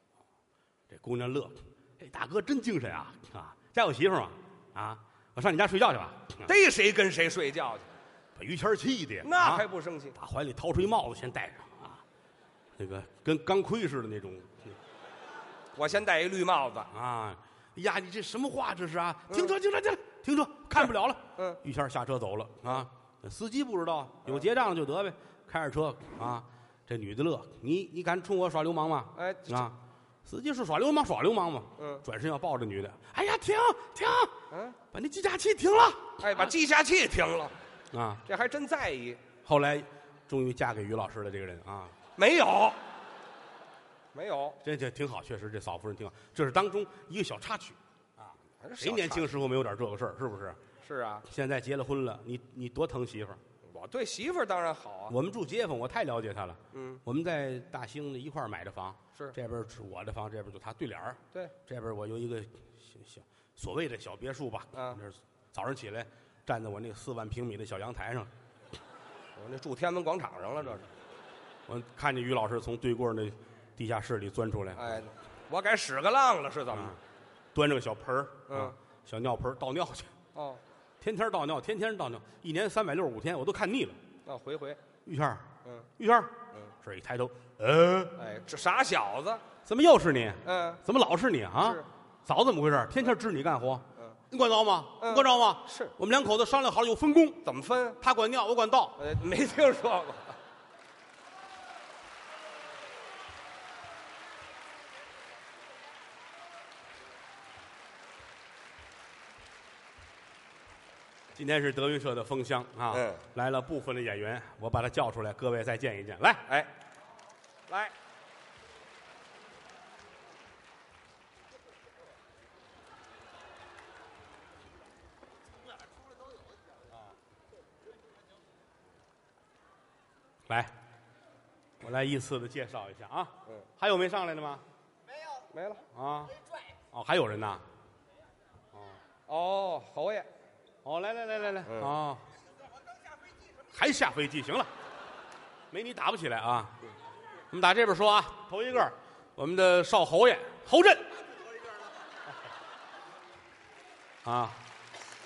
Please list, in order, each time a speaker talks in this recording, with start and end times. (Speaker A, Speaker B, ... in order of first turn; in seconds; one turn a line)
Speaker A: 0.9-6.5
Speaker B: 6.5-7.9
Speaker A: 8.4-9.6
Speaker B: 9.2-10.2
Speaker A: 10.2-12.0
Speaker A: 12.8-14.8
Speaker B: 15.8-16.9
Speaker A: 16.9-34.3
Speaker B: 20.8-21.6
Speaker B: 29.2-29.7
Speaker B: 31.8-32.0
Speaker B: 34.5-34.8
Speaker A: 34.9-36.2
Speaker B: 36.2-37.5
Speaker A: 37.9-38.2
Speaker B: 38.3-39.2
Speaker A: 39.4-42.0
Speaker B: 42.2-42.8
Speaker B: 44.1-44.6
Speaker A: 44.6-50.6
Speaker B: 48.6-49.3
Speaker B: 50.8-51.2
Speaker A: 51.3-53.4
Speaker B: 53.7-55.1
Speaker A: 55.1-68.3
Speaker B: 56.7-57.0
Speaker B: 64.7-65.0
Speaker B: 69.4-70.9
Speaker A: 71.7-75.1
Speaker B: 74.8-76.9
Speaker A: 76.7-77.0
Speaker A: 77.5-80.1
Speaker B: 78.5-78.8
Speaker B: 80.3-80.6
Speaker A: 81.0-84.0
Speaker B: 84.3-84.8
Speaker A: 85.0-85.5
Speaker A: 86.0-88.2
Speaker B: 88.2-89.4
Speaker A: 89.7-97.4
Speaker B: 90.5-90.8
Speaker B: 95.0-95.9
Speaker B: 97.4-98.0
Speaker A: 98.0-99.0
Speaker B: 99.0-100.4
Speaker A: 111.4-116.4
Speaker B: 112.9-113.2
Speaker B: 117.7-117.9
Speaker A: 131.8-134.6
Speaker B: 135.5-135.8
Speaker A: 135.9-136.4
Speaker A: 136.9-137.7
Speaker B: 139.3-140.3
Speaker A: 140.8-142.3
Speaker A: 143.7-144.7
Speaker A: 145.7-146.8
Speaker A: 147.5-151.1
Speaker A: 154.2-154.6